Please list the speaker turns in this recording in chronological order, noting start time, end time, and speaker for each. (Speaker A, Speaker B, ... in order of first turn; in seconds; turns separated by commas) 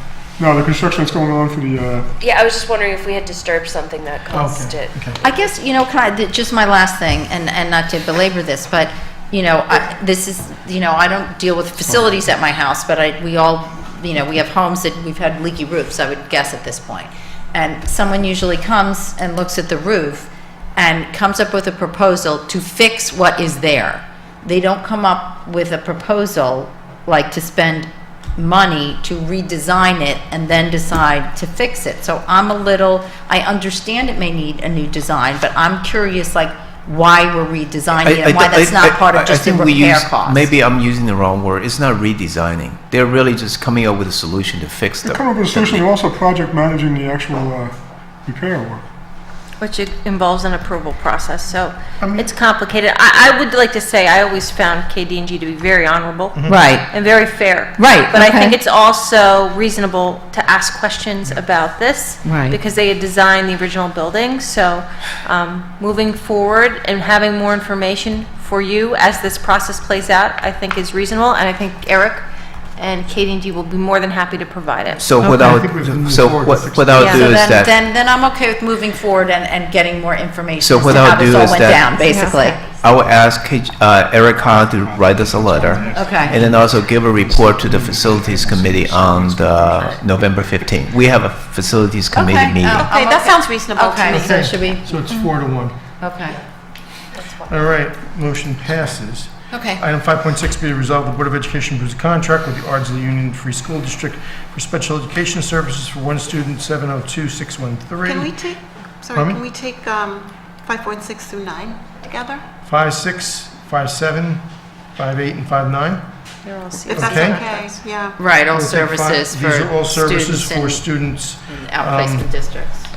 Speaker A: 0.4-2.1, Speaker B: 2.2-4.9, Speaker C: 4.3-5.2, Speaker D: 5.2-40.5, Speaker E: 38.0-45.8, Speaker A: 45.0-48.8, Speaker F: 49.6-72.2, Speaker C: 52.0-52.3, Speaker C: 56.3-56.6, Speaker D: 56.5-56.9, Speaker D: 57.8-58.5, Speaker D: 62.2-62.5, Speaker F: 72.8-75.1, Speaker E: 75.0-77.8, Speaker C: 75.2-77.5, Speaker F: 77.0-77.4, Speaker D: 77.3-82.5, Speaker E: 80.6-82.0, Speaker F: 82.0-82.6, Speaker G: 82.3-82.7, Speaker E: 82.6-92.9, Speaker A: 84.7-90.8, Speaker D: 85.9-86.3, Speaker D: 92.1-94.9, Speaker G: 92.7-94.8, Speaker C: 94.1-95.9, Speaker D: 96.0-96.3, Speaker C: 97.4-108.4, Speaker D: 99.5-99.8, Speaker G: 108.0-112.4, Speaker C: 109.1-109.4, Speaker C: 112.6-114.4, Speaker C: 114.9-116.0, Speaker F: 116.4-117.8, Speaker G: 116.8-118.2, Speaker C: 116.9-117.4, Speaker D: 118.2-120.8, Speaker C: 118.5-122.3, Speaker D: 121.5-122.9